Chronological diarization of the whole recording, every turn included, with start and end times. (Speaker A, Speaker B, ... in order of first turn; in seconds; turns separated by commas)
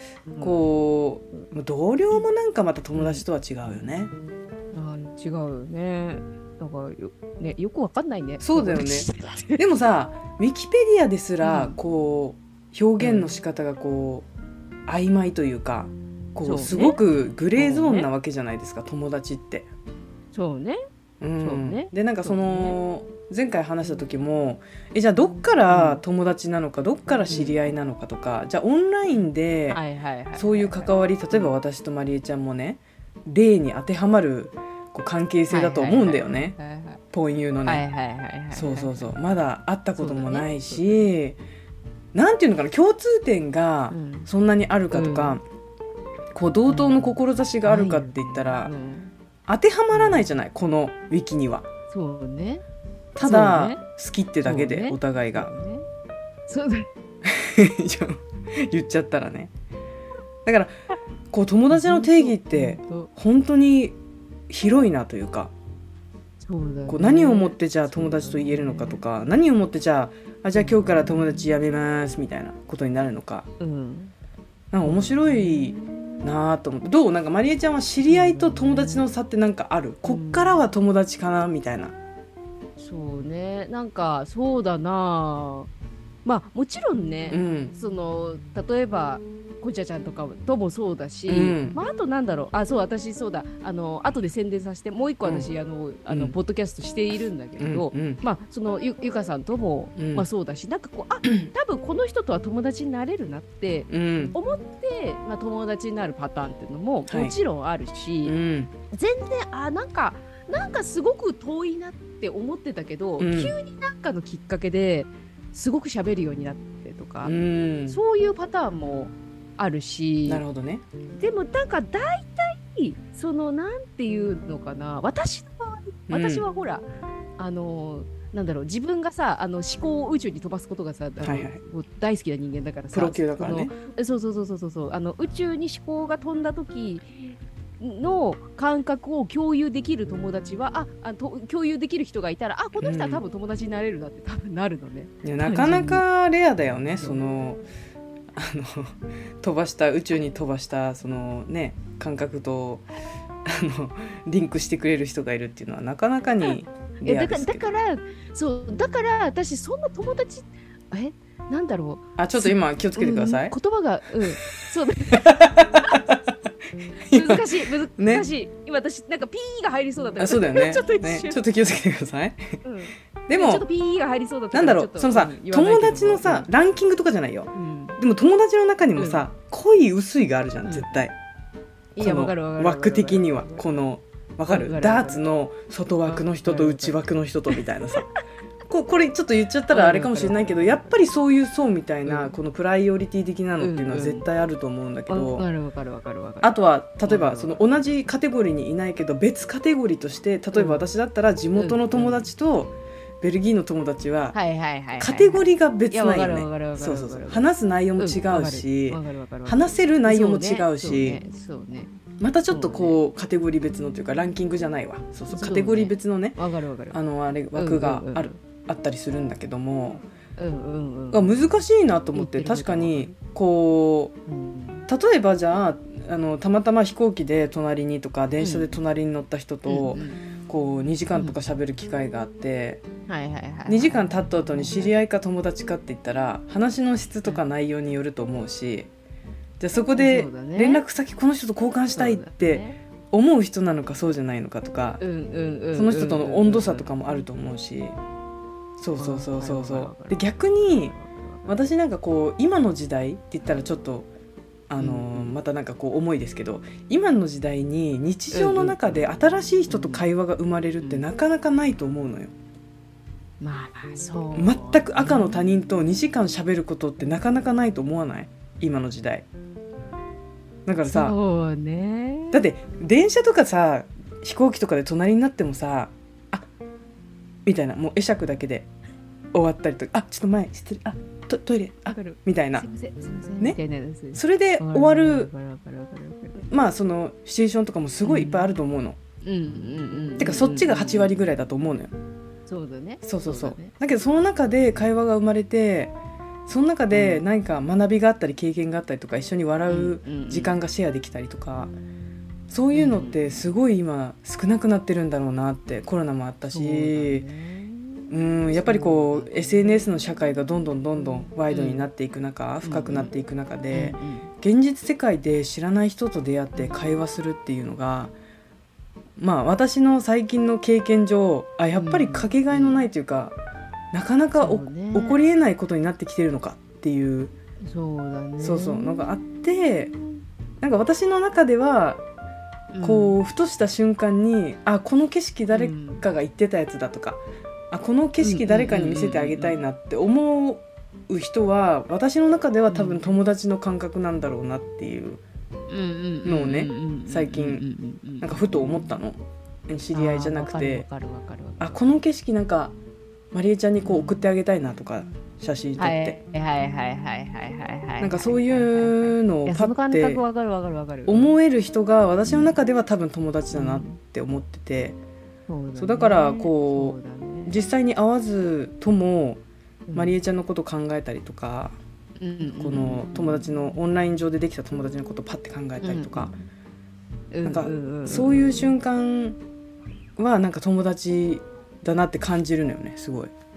Speaker A: 0.3-0.6, Speaker B: 0.4-4.1, Speaker A: 3.0-3.2, Speaker A: 4.7-9.6, Speaker B: 8.4-14.3, Speaker A: 11.4-11.8, Speaker A: 13.0-13.3, Speaker B: 14.9-19.7, Speaker A: 16.4-17.0, Speaker A: 17.6-18.1, Speaker A: 20.3-20.8, Speaker B: 21.2-29.8, Speaker A: 21.4-22.8, Speaker A: 25.7-26.0, Speaker A: 29.7-31.5, Speaker B: 30.4-36.6, Speaker A: 35.5-37.0, Speaker B: 37.1-37.8, Speaker A: 37.6-39.1, Speaker B: 38.5-41.4, Speaker A: 40.0-41.0, Speaker B: 42.1-45.4, Speaker A: 43.9-44.3, Speaker A: 44.9-45.4, Speaker B: 46.3-48.7, Speaker A: 46.7-49.1, Speaker B: 49.5-51.7, Speaker A: 49.9-50.2, Speaker A: 51.9-52.6, Speaker B: 53.2-55.5, Speaker A: 53.2-53.8, Speaker A: 54.4-55.9, Speaker A: 56.5-56.9, Speaker B: 57.2-59.5, Speaker B: 60.5-60.7, Speaker B: 61.3-64.0, Speaker A: 61.7-63.1, Speaker B: 64.5-65.5, Speaker A: 66.4-69.0, Speaker B: 66.9-73.5, Speaker A: 70.6-70.9, Speaker A: 73.6-74.1, Speaker B: 74.7-82.0, Speaker A: 74.9-76.3, Speaker A: 78.1-79.1, Speaker A: 80.1-80.6, Speaker A: 82.8-85.7, Speaker A: 86.2-108.3, Speaker B: 87.3-87.7, Speaker B: 91.3-91.8, Speaker B: 96.1-96.3, Speaker B: 97.6-98.2, Speaker B: 100.0-100.2, Speaker B: 101.2-101.5, Speaker B: 103.9-104.3, Speaker B: 107.1-107.3, Speaker B: 108.2-108.7, Speaker A: 108.9-117.4, Speaker B: 113.2-113.6, Speaker B: 117.2-118.0, Speaker A: 117.9-120.4, Speaker B: 120.3-120.8, Speaker A: 121.2-126.8, Speaker B: 126.1-126.5, Speaker A: 127.4-146.0, Speaker B: 131.2-131.6, Speaker B: 132.9-133.7, Speaker B: 142.8-143.2, Speaker B: 145.2-147.6, Speaker B: 148.3-152.9, Speaker B: 153.4-157.6, Speaker A: 157.0-166.1, Speaker B: 162.2-163.6, Speaker B: 165.1-166.3, Speaker B: 167.1-167.5, Speaker A: 167.1-171.4, Speaker B: 168.0-168.3, Speaker B: 170.2-172.6, Speaker A: 172.6-176.5, Speaker B: 173.3-173.7, Speaker B: 174.5-181.2, Speaker A: 177.5-178.0, Speaker A: 179.0-179.3, Speaker A: 182.0-183.7, Speaker B: 182.0-188.1, Speaker A: 184.5-185.2, Speaker A: 186.1-187.0, Speaker A: 187.5-188.2, Speaker B: 188.7-195.5, Speaker A: 189.7-190.9, Speaker A: 192.1-192.3, Speaker A: 193.6-194.3, Speaker A: 195.1-197.6, Speaker B: 196.4-204.4, Speaker A: 200.5-200.8, Speaker A: 201.6-202.3, Speaker A: 204.3-207.5, Speaker B: 205.0-211.2, Speaker A: 208.0-211.9, Speaker B: 212.2-216.4, Speaker A: 212.5-213.0, Speaker A: 215.3-217.0, Speaker B: 216.9-220.0, Speaker A: 217.6-218.4, Speaker A: 220.4-221.4, Speaker B: 221.1-224.2, Speaker A: 222.1-223.1, Speaker A: 224.3-224.9, Speaker B: 224.9-232.8, Speaker A: 228.4-228.8, Speaker A: 229.7-230.2, Speaker A: 233.1-234.9, Speaker B: 233.7-238.9, Speaker B: 239.6-245.0, Speaker A: 240.0-240.8, Speaker A: 241.9-242.8, Speaker A: 245.0-246.9, Speaker B: 245.7-248.0, Speaker B: 248.8-250.9, Speaker A: 249.0-251.5, Speaker B: 251.5-254.1, Speaker B: 254.7-262.3, Speaker A: 254.8-255.3, Speaker A: 258.3-259.0, Speaker A: 259.7-260.0, Speaker A: 263.4-265.4, Speaker B: 264.4-269.3, Speaker B: 270.7-271.1, Speaker A: 270.9-272.4, Speaker B: 272.3-276.5, Speaker B: 277.5-278.7, Speaker B: 279.3-282.7, Speaker A: 281.9-286.4, Speaker B: 284.1-285.3, Speaker B: 286.5-289.0, Speaker A: 288.1-288.5, Speaker A: 289.2-291.1, Speaker B: 290.2-291.9, Speaker A: 292.5-293.7, Speaker B: 293.0-295.9, Speaker B: 296.5-301.8, Speaker A: 296.9-297.2, Speaker A: 299.7-300.6, Speaker B: 302.5-307.3, Speaker A: 302.7-303.3, Speaker A: 306.5-309.8, Speaker B: 308.1-318.1, Speaker A: 311.5-311.9, Speaker A: 312.6-313.1, Speaker A: 313.7-314.3, Speaker B: 319.2-323.4, Speaker A: 321.8-322.8, Speaker B: 323.9-327.3, Speaker A: 324.4-325.2, Speaker A: 327.6-329.1, Speaker B: 328.4-329.9, Speaker B: 330.6-332.0, Speaker A: 332.7-333.2, Speaker B: 332.8-345.2, Speaker A: 335.5-336.0, Speaker A: 338.2-339.6, Speaker A: 342.7-343.2, Speaker A: 345.7-348.9, Speaker B: 346.2-347.6, Speaker B: 348.2-350.9, Speaker A: 349.9-351.8, Speaker B: 351.6-352.8, Speaker B: 353.3-356.2, Speaker A: 353.9-354.1, Speaker A: 355.8-361.4, Speaker B: 358.0-360.2, Speaker B: 361.1-365.0, Speaker A: 362.3-362.5, Speaker A: 363.5-364.0, Speaker A: 365.5-367.6, Speaker B: 365.8-369.4, Speaker A: 369.9-370.1, Speaker B: 369.9-371.8, Speaker A: 372.2-373.4, Speaker B: 372.6-376.3, Speaker A: 375.8-376.4, Speaker A: 377.3-378.7, Speaker B: 377.4-379.4, Speaker B: 380.2-383.3